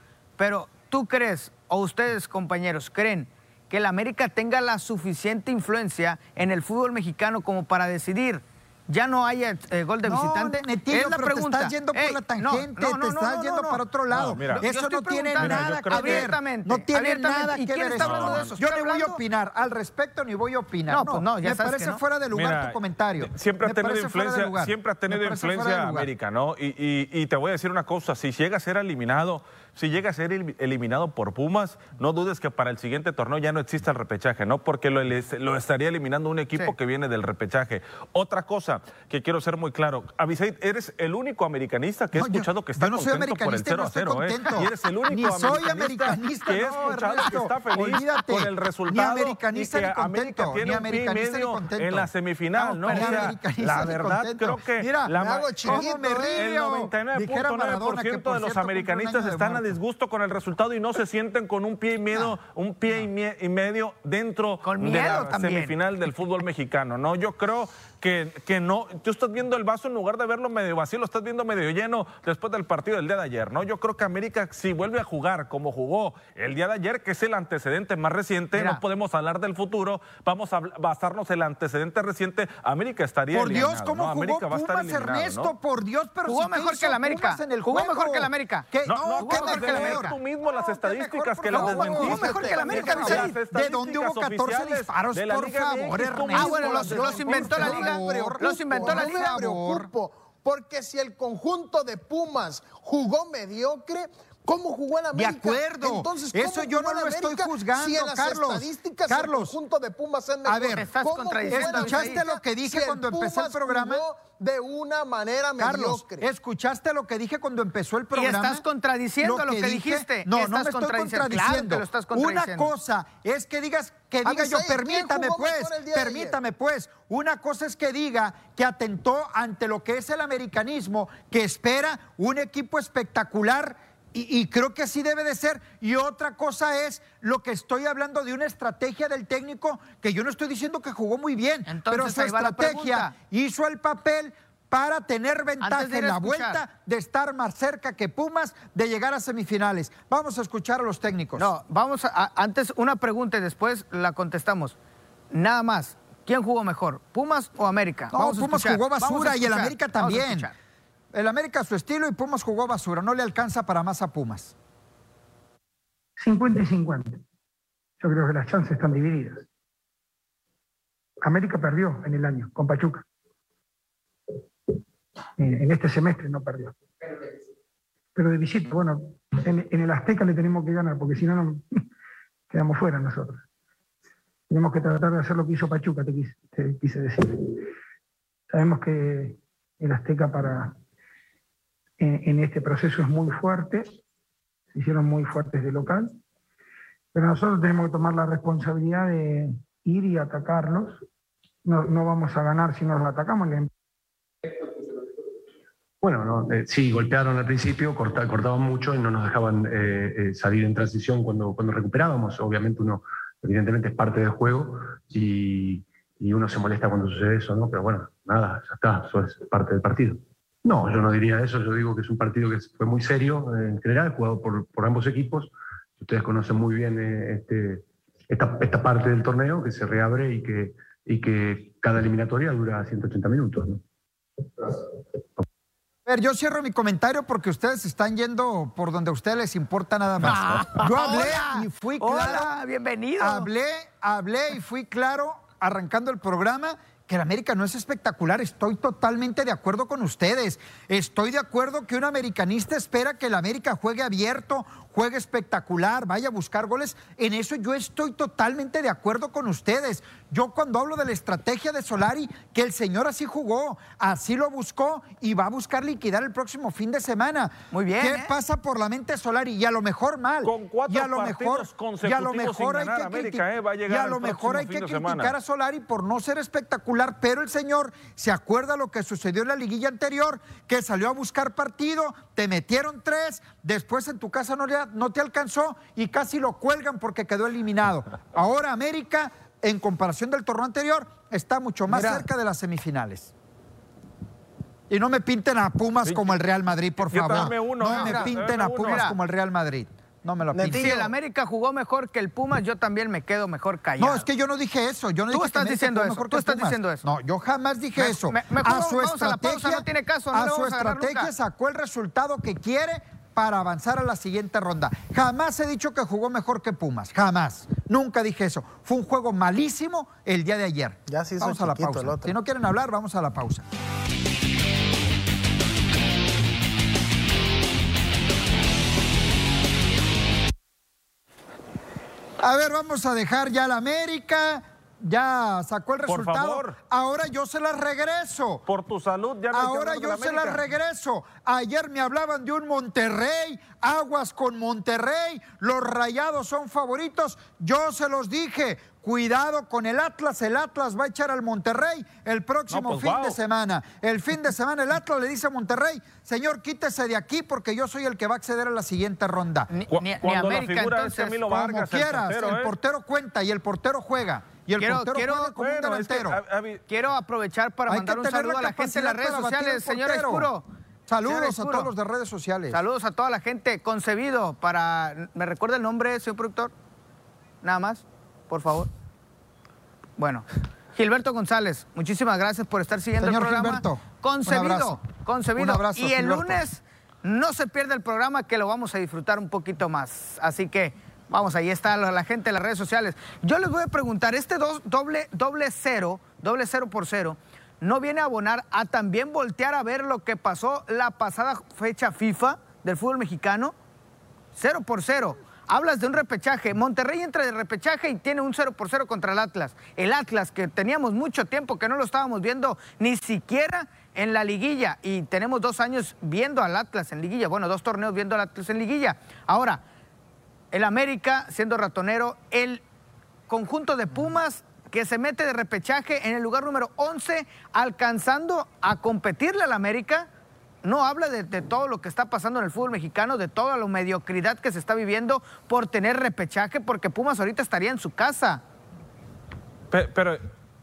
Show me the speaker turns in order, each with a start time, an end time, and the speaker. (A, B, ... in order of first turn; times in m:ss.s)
0:00.4-0:13.8 A
0:10.0-0:26.1 B
0:14.1-0:14.6 C
0:14.6-0:19.2 A
0:15.4-0:16.4 C
0:18.0-0:18.5 C
0:20.9-0:22.0 A
0:22.3-1:25.5 C
0:42.1-0:55.1 B
0:52.8-0:53.3 A
0:55.2-0:56.5 D
0:55.6-0:59.8 B
1:04.6-1:05.7 A
1:18.5-1:18.8 A
1:23.3-1:39.9 B
1:26.2-1:28.7 A
1:28.8-1:37.4 C
1:29.2-1:30.1 A
1:31.5-1:33.3 A
1:36.3-1:39.3 A
1:36.8-1:56.2 D
1:45.1-1:49.6 B
1:50.4-1:50.9 B
1:50.7-1:52.2 A
1:51.5-1:54.0 B
1:55.6-1:58.6 B
1:58.1-2:02.7 A
1:59.2-2:31.5 B
2:04.2-2:06.4 D
2:21.7-2:23.1 A
2:25.6-2:26.6 A
2:31.4-2:34.7 A
2:35.3-2:40.5 A
2:38.1-2:40.5 B
2:41.1-2:44.5 B
2:46.2-2:47.2 E
2:48.0-2:49.4 E
2:51.2-2:53.0 E
2:55.4-2:57.1 E
2:58.1-3:01.8 E
3:02.5-3:03.4 E
3:04.5-3:07.7 E
3:08.5-3:10.8 E
3:12.0-3:14.0 E
3:14.7-3:16.2 E
3:17.1-3:21.0 E
3:21.6-3:23.7 E
3:26.0-3:53.8 F
3:56.0-4:02.5 B
4:00.2-4:03.5 A
4:03.2-4:53.3 B
4:27.7-4:28.3 A
4:30.4-4:35.3 C
4:51.9-4:52.2 D
4:54.9-5:00.9 B
4:56.0-4:56.3 C
4:57.0-4:59.1 C
4:57.9-4:59.2 A
5:00.5-5:01.1 D
5:00.7-5:04.3 A
5:04.0-5:23.6 B
5:05.3-5:07.0 A
5:08.0-5:11.3 A
5:21.1-5:22.3 D
5:32.4-5:38.6 B
5:36.0-5:36.8 C
5:38.6-5:40.6 C
5:39.5-5:59.7 B
5:52.7-5:53.4 C
5:59.7-6:01.7 A
5:59.9-6:02.7 C
6:01.6-6:06.4 B
6:04.8-6:05.6 A
6:05.6-6:06.8 C
6:06.9-6:10.6 A
6:07.9-6:10.5 B
6:11.1-6:12.8 B
6:11.2-6:11.9 A
6:12.7-6:16.7 A
6:17.6-6:18.9 A
6:20.2-6:43.7 A
6:23.2-6:25.0 B
6:25.5-6:26.6 B
6:44.5-6:59.8 A
7:00.7-7:02.8 A
7:03.5-7:10.3 A
7:10.8-7:18.6 A
7:19.9-7:20.4 C